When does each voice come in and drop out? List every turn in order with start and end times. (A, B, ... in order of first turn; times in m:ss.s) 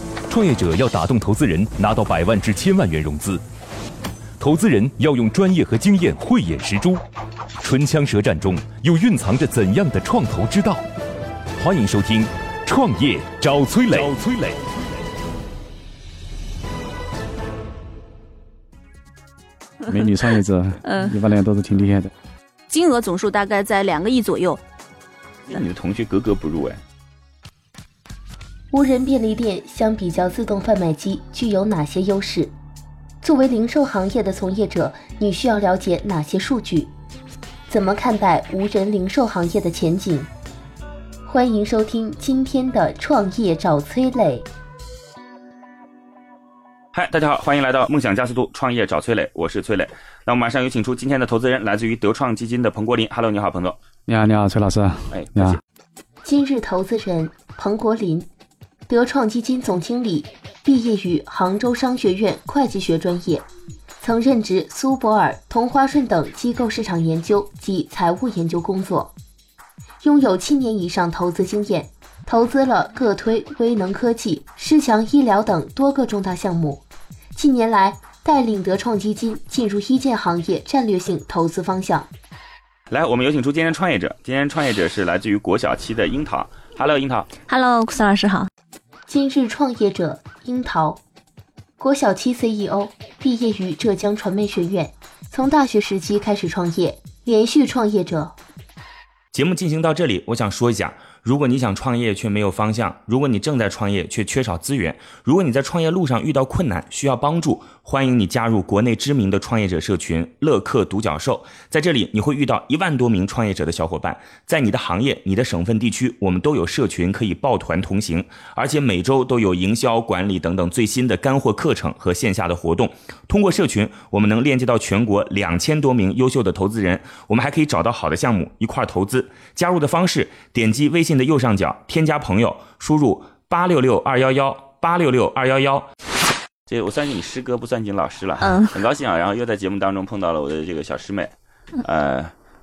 0:00.3-0:03.4 A
0:04.4-0:07.0 A
0:07.6-0:10.9 A
0:11.6-0:14.6 A
0:19.9-0:22.1 B
0:20.8-0:21.2 C
0:22.7-0:24.6 C
0:25.5-0:26.8 D
0:28.7-0:32.5 E
0:33.2-0:36.9 E
0:37.7-0:40.3 E
0:41.3-0:44.5 E
0:46.9-0:53.8 D
0:54.1-0:55.6 B
0:55.1-0:55.6 D
0:56.2-0:58.3 E
0:58.9-1:03.4 E
1:04.0-1:09.1 E
1:10.0-1:16.8 E
1:17.4-1:22.1 E
1:22.9-1:27.3 D
1:27.5-1:28.5 C
1:29.1-1:31.0 E
1:31.8-1:38.3 E
1:39.3-2:15.9 F
2:16.7-2:22.3 D
2:18.4-2:18.8 C